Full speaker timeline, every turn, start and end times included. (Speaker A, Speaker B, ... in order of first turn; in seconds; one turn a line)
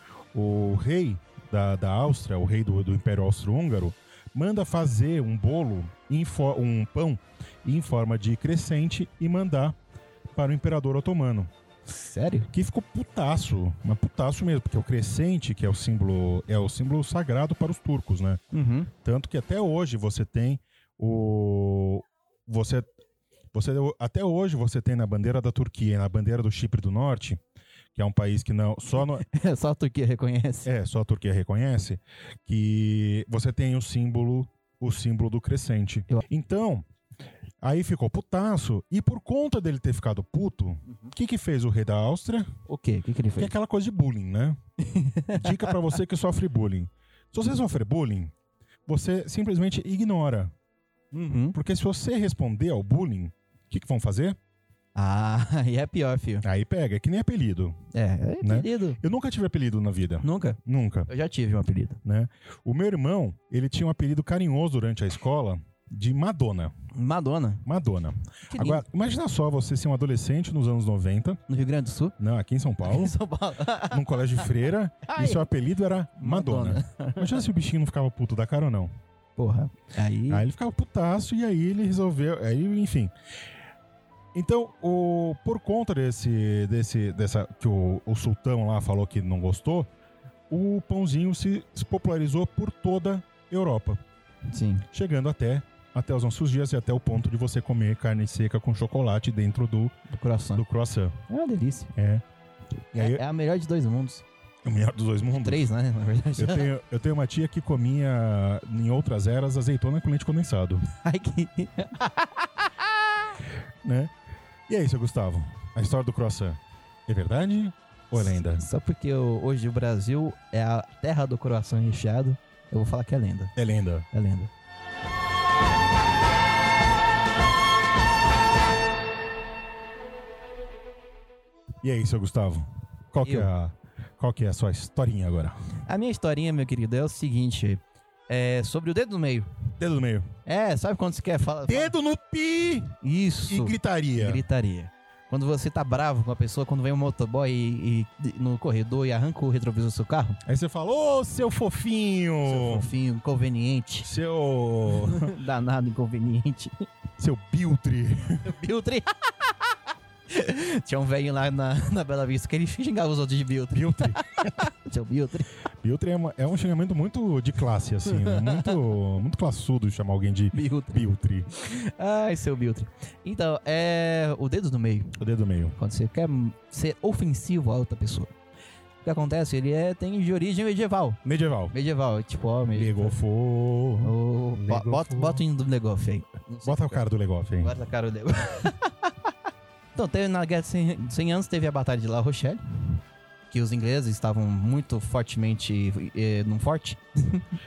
Speaker A: 0.3-9.8
Speaker A: 10.3-11.5
Speaker B: 11.9-12.5
Speaker A: 12.5-18.4
Speaker B: 18.5-18.9
Speaker A: 19.0-22.9
Speaker A: 23.5-27.4
Speaker A: 27.9-29.2
Speaker B: 29.1-30.7
Speaker A: 30.6-36.8
Speaker A: 37.6-42.5
Speaker B: 42.7-43.5
Speaker A: 43.4-44.6
Speaker B: 44.8-45.9
Speaker A: 45.3-48.3
Speaker A: 48.9-50.5
Speaker B: 51.1-51.6
Speaker A: 51.5-54.4
Speaker B: 55.0-56.5
Speaker A: 56.4-57.8
Speaker B: 57.9-59.0
Speaker A: 58.4-61.1
Speaker B: 60.2-62.0
Speaker A: 62.0-66.7
Speaker B: 66.9-67.6
Speaker A: 67.7-71.4
Speaker B: 68.5-68.8
Speaker B: 71.5-72.2
Speaker A: 72.2-73.2
Speaker B: 72.8-75.5
Speaker A: 73.9-78.9
Speaker B: 76.2-77.4
Speaker B: 79.4-80.5
Speaker A: 80.3-83.1
Speaker A: 84.3-89.9
Speaker A: 90.5-94.0
Speaker B: 94.5-94.9
Speaker A: 94.9-100.0
Speaker B: 100.1-100.6
Speaker A: 100.5-101.2
Speaker B: 101.3-101.9
Speaker A: 102.0-102.2
Speaker A: 102.9-103.2
Speaker B: 103.0-104.3
Speaker A: 104.6-105.7
Speaker B: 105.4-106.7
Speaker A: 106.4-110.9
Speaker B: 110.9-113.4
Speaker A: 113.8-114.1
Speaker A: 114.7-118.7
Speaker B: 118.2-123.5
Speaker A: 123.6-124.1
Speaker B: 124.1-124.5
Speaker A: 131.8-135.6
Speaker B: 133.2-133.5
Speaker B: 135.9-139.5
Speaker A: 139.8-140.3
Speaker B: 140.5-141.9
Speaker A: 141.7-144.4
Speaker B: 143.0-150.4
Speaker A: 150.5-152.9
Speaker B: 152.4-154.1
Speaker A: 154.0-155.3
Speaker B: 154.9-156.9
Speaker A: 157.2-158.5
Speaker B: 158.4-159.7
Speaker B: 160.3-165.5
Speaker A: 163.7-164.7
Speaker A: 165.8-171.5
Speaker B: 168.1-168.8
Speaker B: 170.5-171.0
Speaker B: 171.6-175.2
Speaker A: 175.2-175.8
Speaker B: 175.8-178.3
Speaker B: 179.0-181.2
Speaker A: 181.2-181.7
Speaker B: 181.7-183.2
Speaker A: 182.7-185.4
Speaker B: 184.0-187.0
Speaker A: 186.6-187.8
Speaker B: 187.6-189.1
Speaker B: 189.9-197.5